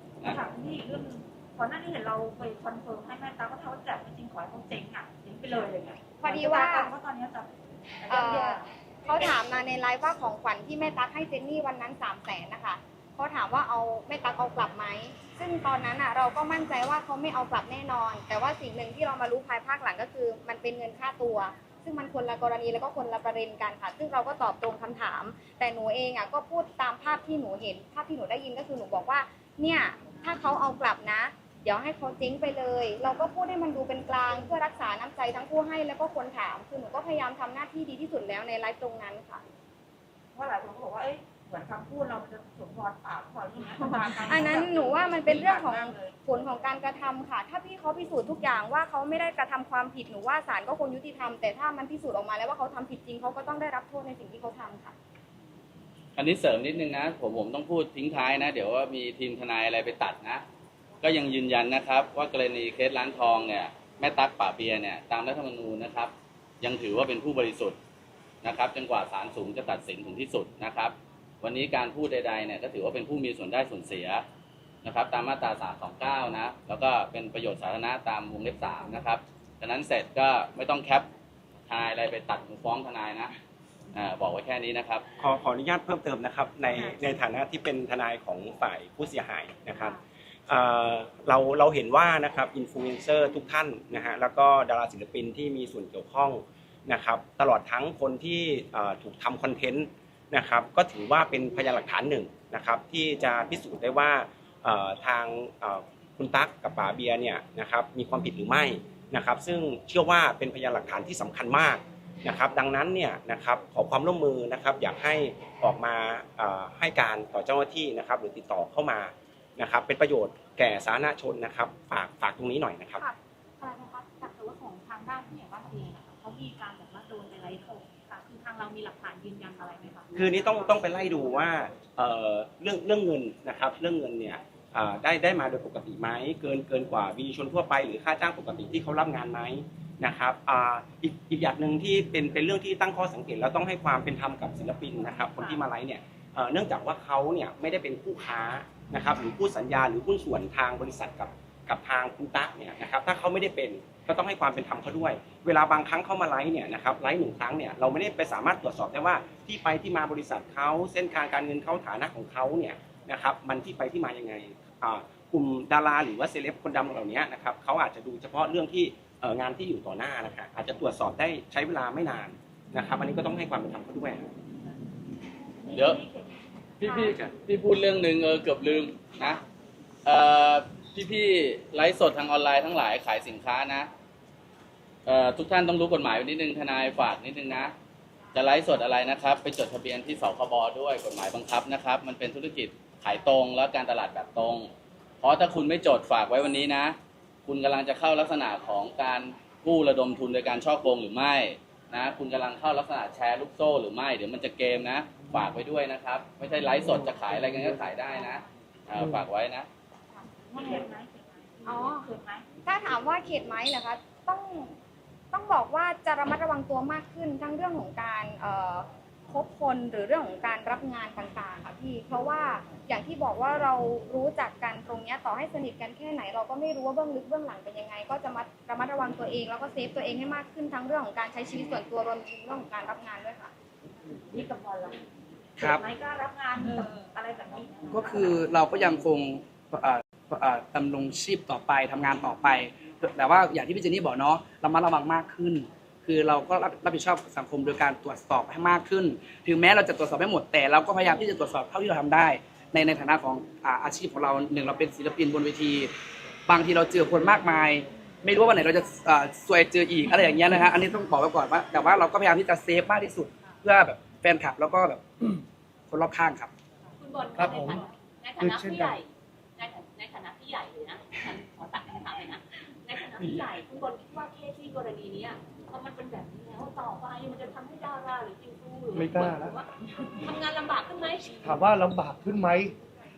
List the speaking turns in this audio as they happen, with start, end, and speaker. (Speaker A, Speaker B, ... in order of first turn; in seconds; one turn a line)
Speaker A: 0.2-8.7
Speaker B: 6.2-6.9
Speaker B: 8.1-39.4
Speaker A: 40.3-46.1
Speaker B: 44.2-54.9
Speaker C: 56.1-60.4
Speaker C: 61.0-67.8
Speaker C: 68.4-74.2
Speaker C: 74.8-81.1
Speaker C: 81.7-83.3
Speaker C: 83.9-85.0
Speaker D: 85.2-123.0
Speaker E: 123.6-130.3
Speaker D: 130.1-174.3
Speaker A: 175.6-176.4
Speaker C: 175.7-176.0
Speaker C: 176.8-179.4
Speaker B: 176.8-177.1
Speaker C: 180.0-183.9
Speaker C: 185.1-187.7
Speaker C: 188.3-194.7
Speaker C: 195.2-209.7
Speaker F: 209.0-209.2
Speaker A: 210.3-212.4
Speaker B: 211.6-212.1
Speaker B: 212.6-214.8
Speaker B: 215.3-233.5
Speaker A: 234.3-235.0
Speaker A: 235.6-238.3
Speaker G: 237.9-255.9
Speaker G: 256.5-265.4
Speaker G: 265.9-266.5
Speaker H: 267.0-281.6
Speaker F: 267.3-267.9
Speaker F: 268.4-269.0
Speaker F: 278.9-279.6
Speaker F: 281.4-282.7